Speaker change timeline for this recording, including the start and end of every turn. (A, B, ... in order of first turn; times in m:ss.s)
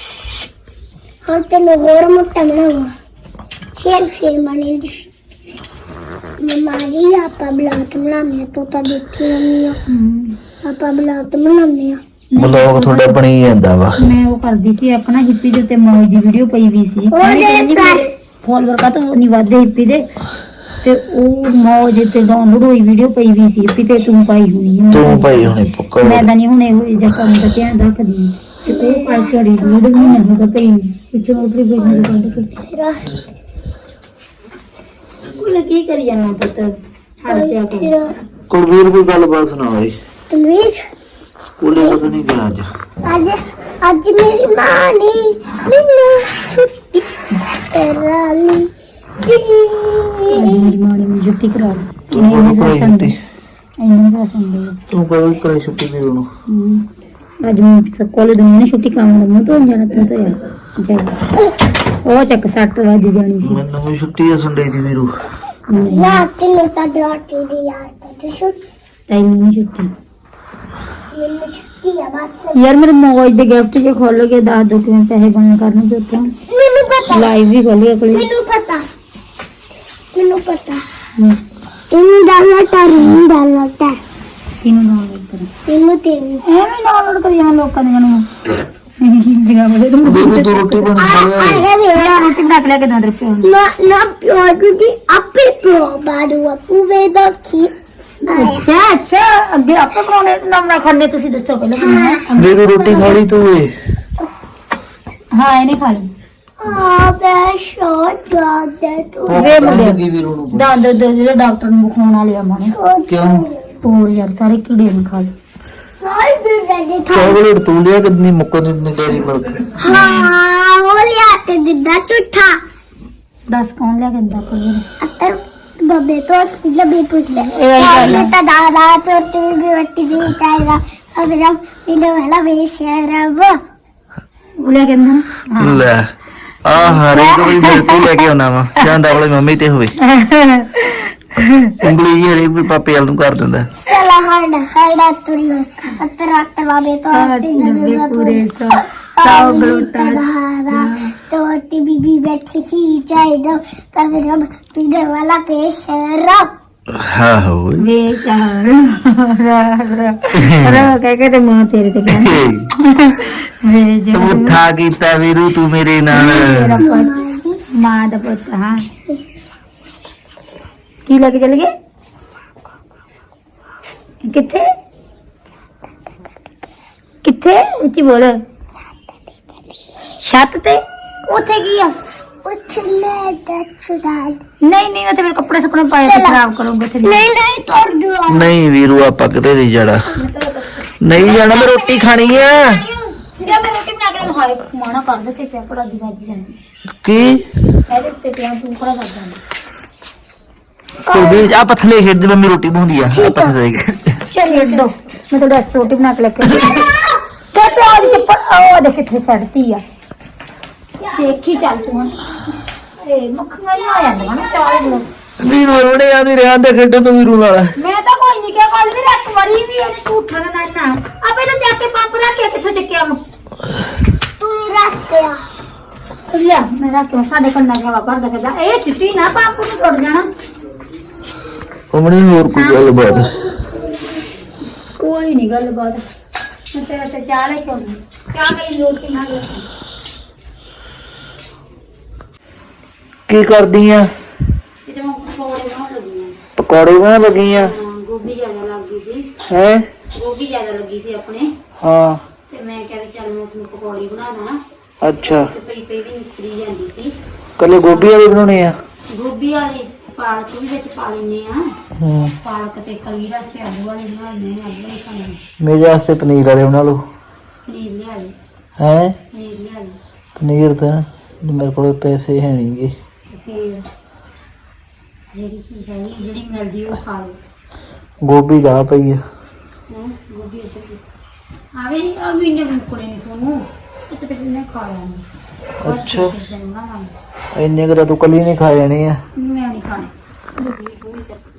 0:01.3-0:02.9 A
0:03.8-0:05.1 A
0:06.4-0:09.8 A
0:09.9-0:10.4 B
0:10.6-0:12.0 A
0:12.3-0:13.2 B
0:12.4-0:14.0 C
0:14.0-0:20.1 B
0:17.1-0:18.1 A
0:20.8-0:32.5 B
0:24.9-0:26.3 C
0:28.7-0:30.2 A
0:31.8-0:33.1 A
0:35.4-0:37.9 B
0:37.3-0:38.1 A
0:38.5-0:40.0 C
0:40.3-0:40.8 A
0:41.6-0:42.7 C
0:43.0-0:47.1 A
0:47.7-0:48.7 A
0:49.2-0:50.7 A
0:50.3-0:53.2 B
0:52.1-0:53.2 C
0:53.8-0:54.8 B
0:54.9-0:56.3 C
0:56.5-0:56.9 B
0:57.4-1:01.2 B
1:02.0-1:03.6 B
1:03.4-1:05.1 C
1:05.7-1:06.2 B
1:05.9-1:08.6 A
1:09.1-1:09.9 B
1:11.1-1:12.6 A
1:12.5-1:16.3 B
1:16.5-1:17.4 A
1:17.1-1:18.3 B
1:18.1-1:18.9 A
1:20.1-1:20.8 A
1:21.9-1:24.0 A
1:24.6-1:25.5 B
1:25.7-1:26.4 A
1:26.4-1:28.3 B
1:29.0-1:30.9 B
1:30.0-1:31.7 C
1:31.0-1:32.4 A
1:31.9-1:33.5 B
1:33.4-1:37.7 A
1:38.2-1:38.7 A
1:38.3-1:43.2 B
1:41.8-1:42.3 A
1:42.4-1:43.8 C
1:45.3-1:46.1 B
1:46.6-1:49.8 A
1:49.3-1:50.7 C
1:49.3-1:50.0 B
1:50.5-1:52.8 B
1:52.7-1:53.7 A
1:53.1-1:53.5 C
1:53.8-1:55.3 B
1:56.0-1:57.4 A
1:57.1-2:00.2 C
1:59.8-2:02.6 A
2:03.5-2:04.8 B
2:05.0-2:13.6 A
2:07.3-2:08.3 B
2:14.6-2:15.9 B
2:15.6-2:16.1 C
2:16.6-2:19.9 C
2:16.7-2:18.2 B
2:20.0-2:21.8 B
2:21.8-2:23.7 C
2:23.9-2:36.5 A
2:27.1-2:31.1 B
2:36.9-2:37.9 C
2:37.8-2:44.6 B
2:40.4-2:40.9 C
2:42.1-2:42.7 C
2:44.1-2:46.8 C
2:46.1-2:47.1 B
2:46.8-2:47.6 A
2:47.7-2:48.8 B
2:51.1-2:51.7 B
2:54.2-2:54.7 B
2:57.2-2:58.4 B
2:59.1-2:59.6 A
3:00.2-3:01.9 B
3:02.4-3:04.4 A
3:04.6-3:07.3 B
3:06.0-3:06.4 A
3:07.0-3:08.6 A
3:08.3-3:10.1 C
3:10.1-3:16.6 B
3:11.0-3:12.8 C
3:17.0-3:17.5 C
3:17.9-3:19.4 B
3:21.1-3:21.5 A
3:21.1-3:24.2 C
3:23.1-3:23.6 A
3:24.3-3:26.8 B
3:24.4-3:24.9 A
3:26.5-3:28.3 A
3:27.5-3:29.8 B
3:31.0-3:32.3 A
3:31.1-3:32.2 B
3:33.0-3:35.1 B
3:33.7-3:35.1 A
3:35.4-3:37.7 C
3:37.8-3:43.2 B
3:44.4-3:45.4 A
3:46.3-3:50.3 B
3:51.9-3:53.3 C
3:52.5-3:52.9 B
3:55.0-3:56.0 B
3:56.7-3:59.7 B
4:03.3-4:04.1 C
4:04.8-4:06.4 B
4:06.6-4:07.8 C
4:07.5-4:09.3 B
4:09.5-4:09.9 C
4:10.1-4:11.5 B
4:11.8-4:12.2 C
4:12.5-4:14.6 B
4:15.0-4:15.5 C
4:15.2-4:17.1 B
4:17.6-4:18.8 C
4:19.1-4:21.7 B
4:22.0-4:22.4 C
4:22.4-4:25.4 B
4:25.6-4:27.0 C
4:27.7-4:28.4 B
4:28.8-4:29.2 C
4:29.3-4:30.0 B
4:30.4-4:32.9 C
4:33.3-4:33.9 B
4:35.3-4:37.4 B
4:38.2-4:39.2 C
4:39.9-4:41.0 B
4:41.7-4:45.2 B
4:45.8-4:46.3 C
4:45.8-4:47.1 B
4:47.6-4:49.2 C
4:49.4-4:51.4 B